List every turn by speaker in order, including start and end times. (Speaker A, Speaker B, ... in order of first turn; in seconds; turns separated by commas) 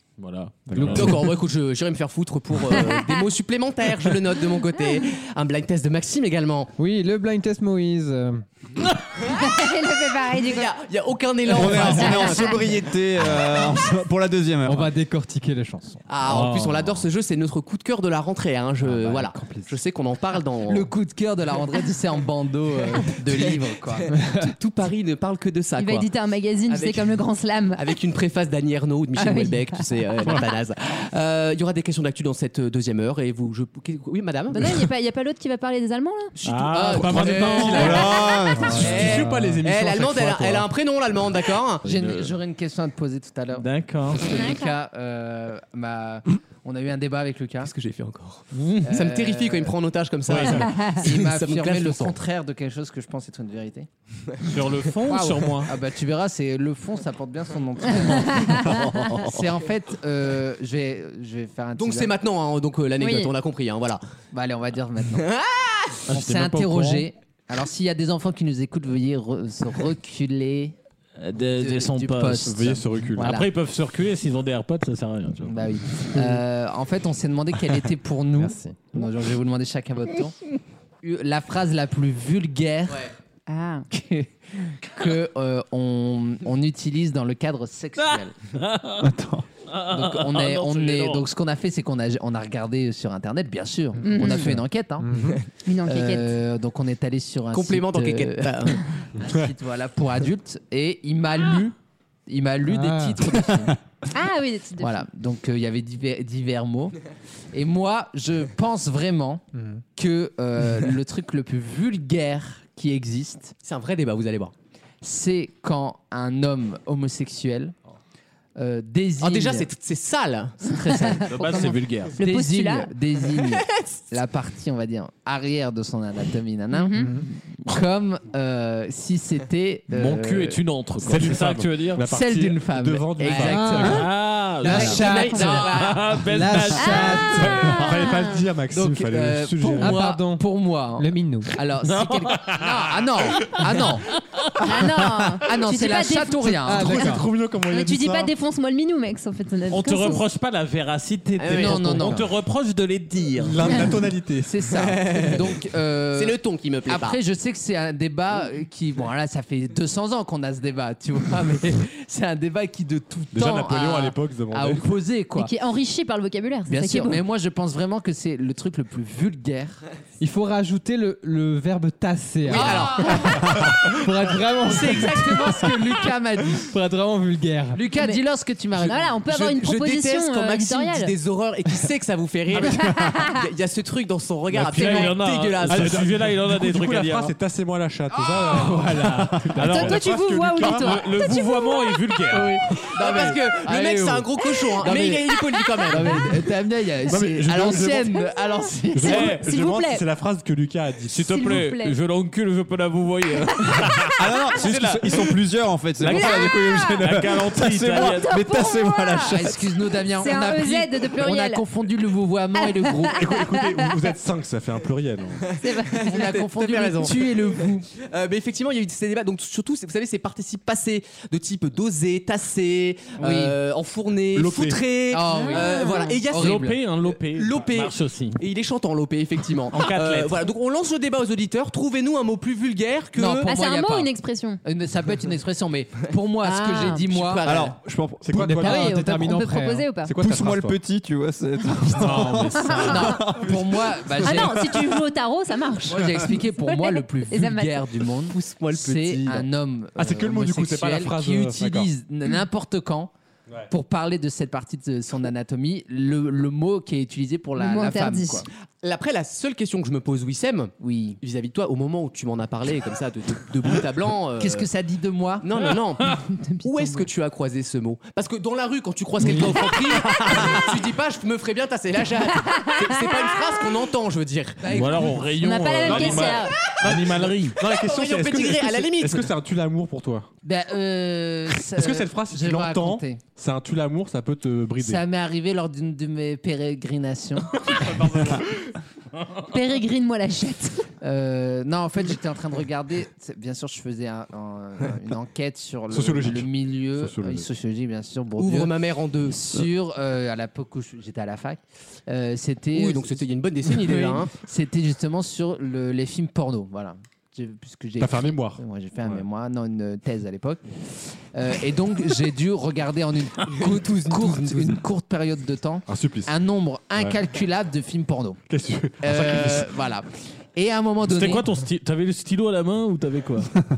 Speaker A: 0.2-1.3, Speaker B: 0.7-1.1, Speaker C: 0.9-6.7, Speaker D: 2.7-3.0, Speaker B: 6.8-8.4, Speaker D: 9.2-10.7, Speaker C: 10.3-12.6, Speaker E: 11.5-14.9, Speaker D: 11.8-12.6, Speaker B: 14.7-16.5, Speaker C: 16.1-20.9, Speaker A: 16.3-16.9, Speaker B: 18.8-19.7, Speaker F: 20.7-24.1, Speaker B: 24.1-24.5, Speaker C: 24.4-26.1, Speaker D: 25.8-28.0, Speaker C: 26.7-27.2, Speaker C: 27.8-34.9, Speaker D: 29.2-30.4, Speaker D: 34.5-36.4, Speaker C: 36.4-41.8, Speaker A: 36.4-38.1, Speaker E: 37.7-39.1, Speaker D: 37.9-38.7, Speaker B: 38.6-39.6, Speaker G: 38.7-40.7, Speaker A: 41.9-42.3, Speaker F: 41.9-47.7, Speaker A: 43.5-44.2, Speaker D: 44.2-44.7, Speaker C: 47.6-52.2, Speaker F: 48.9-49.7, Speaker A: 50.3-50.7, Speaker F: 51.0-53.9, Speaker A: 54.5-55.7, Speaker F: 55.1-62.1, Speaker D: 58.0-58.8, Speaker E: 58.6-59.2, Speaker C: 61.8-64.0, Speaker D: 63.0-63.3, Speaker F: 64.3-65.3, Speaker C: 65.2-66.0, Speaker A: 66.1-67.1, Speaker F: 66.1-70.7, Speaker A: 71.2-75.7, Speaker F: 71.6-73.5, Speaker G: 72.5-73.4, Speaker F: 75.5-80.4, Speaker B: 78.4-78.8, Speaker F: 81.0-83.1, Speaker D: 83.5-83.9, Speaker F: 83.9-88.3, Speaker A: 88.0-89.1, Speaker E: 89.0-89.5, Speaker A: 89.7-91.3, Speaker F: 89.9-95.1, Speaker D: 94.0-94.6, Speaker B: 94.2-95.4, Speaker D: 95.7-96.3, Speaker F: 95.9-101.8, Speaker C: 97.5-98.8, Speaker F: 102.3-103.8, Speaker B: 102.7-103.5, Speaker D: 104.1-105.0, Speaker F: 104.8-107.0, Speaker F: 107.5-109.4, Speaker B: 109.5-109.8, Speaker F: 110.0-113.5, Speaker C: 113.6-114.5, Speaker F: 115.0-117.8, Speaker F: 118.6-119.7, Speaker C: 119.2-120.6, Speaker F: 120.6-127.0, Speaker A: 121.3-122.2, Speaker D: 121.4-121.7, Speaker D: 122.2-122.9, Speaker C: 123.6-123.9, Speaker D: 126.7-127.2, Speaker F: 127.7-130.6, Speaker A: 129.9-132.1, Speaker G: 131.0-134.1, Speaker F: 132.0-134.0, Speaker B: 133.4-134.1, Speaker A: 133.8-137.2, Speaker B: 134.6-135.4, Speaker F: 134.6-136.0, Speaker C: 134.6-136.2, Speaker D: 135.0-135.7, Speaker B: 136.2-137.8, Speaker D: 136.7-138.5, Speaker G: 137.3-140.1, Speaker F: 138.7-144.1, Speaker B: 139.8-140.4, Speaker B: 141.0-141.5, Speaker A: 141.8-142.8, Speaker A: 143.7-144.4, Speaker D: 144.6-146.6, Speaker F: 145.4-147.1, Speaker B: 146.7-147.3, Speaker G: 146.7-148.3, Speaker D: 147.7-150.2, Speaker A: 149.7-153.8, Speaker C: 151.4-152.2, Speaker F: 151.5-152.2, Speaker G: 153.4-154.6, Speaker F: 154.4-165.5, Speaker C: 155.0-155.4, Speaker C: 156.2-157.2, Speaker G: 163.3-164.9, Speaker D: 165.4-167.2, Speaker F: 166.7-169.8, Speaker B: 170.2-175.7, Speaker C: 172.5-173.4, Speaker F: 172.5-173.4, Speaker F: 174.6-176.7, Speaker B: 176.7-177.8, Speaker F: 177.7-179.0, Speaker D: 177.9-178.2, Speaker D: 178.8-181.1, Speaker C: 179.3-186.1, Speaker D: 182.5-183.4, Speaker A: 184.5-187.3, Speaker G: 185.7-191.1, Speaker A: 189.6-192.6, Speaker D: 189.7-192.2, Speaker C: 192.9-196.2, Speaker G: 193.0-193.3, Speaker F: 193.1-194.3, Speaker F: 194.8-195.2, Speaker F: 195.9-199.3, Speaker D: 195.9-196.2, Speaker G: 197.1-198.2, Speaker G: 198.9-201.5, Speaker D: 199.0-200.1, Speaker A: 201.1-205.3, Speaker D: 201.2-202.0, Speaker E: 204.2-209.8, Speaker A: 206.0-208.3, Speaker D: 206.1-207.1, Speaker D: 208.0-209.5, Speaker F: 209.3-213.3, Speaker D: 210.1-211.6, Speaker D: 212.6-214.0, Speaker G: 213.1-215.5, Speaker D: 215.6-216.4, Speaker C: 215.8-233.5, Speaker F: 216.1-217.9, Speaker F: 223.2-223.6, Speaker G: 224.3-224.8, Speaker F: 225.1-226.8, Speaker D: 225.3-226.2, Speaker A: 226.3-228.4, Speaker A: 229.7-230.4, Speaker F: 233.2-234.1, Speaker D: 233.4-234.6, Speaker F: 234.6-237.4, Speaker D: 236.4-237.1, Speaker C: 236.9-237.8, Speaker E: 237.4-238.6, Speaker G: 238.2-238.9, Speaker B: 238.3-239.9, Speaker D: 238.6-240.2, Speaker G: 240.1-240.8, Speaker E: 240.2-243.8, Speaker G: 241.9-242.9, Speaker D: 242.7-243.2, Speaker F: 242.8-244.7, Speaker D: 244.2-247.9, Speaker E: 244.6-244.9, Speaker F: 245.9-253.1, Speaker C: 248.4-248.7, Speaker G: 248.7-251.9, Speaker F: 253.7-258.5, Speaker D: 257.6-258.5, Speaker C: 258.8-264.7, Speaker F: 260.8-261.2, Speaker F: 264.4-265.5, Speaker C: 265.4-275.2, Speaker D: 266.1-267.1, Speaker F: 274.6-275.1, Speaker A: 274.7-277.6, Speaker D: 275.4-276.6, Speaker G: 275.9-280.3, Speaker C: 277.7-279.3, Speaker F: 280.4-283.2, Speaker G: 281.7-285.0, Speaker F: 284.8-287.6, Speaker D: 289.5-290.9, Speaker F: 291.0-298.7, Speaker G: 295.9-297.5, Speaker C: 298.4-299.4, Speaker F: 299.3-310.6, Speaker C: 302.7-304.3, Speaker G: 308.0-309.2, Speaker F: 311.3-318.4, Speaker C: 313.6-314.5, Speaker G: 315.9-316.3, Speaker G: 318.5-319.7, Speaker F: 319.0-321.5, Speaker A: 321.1-323.5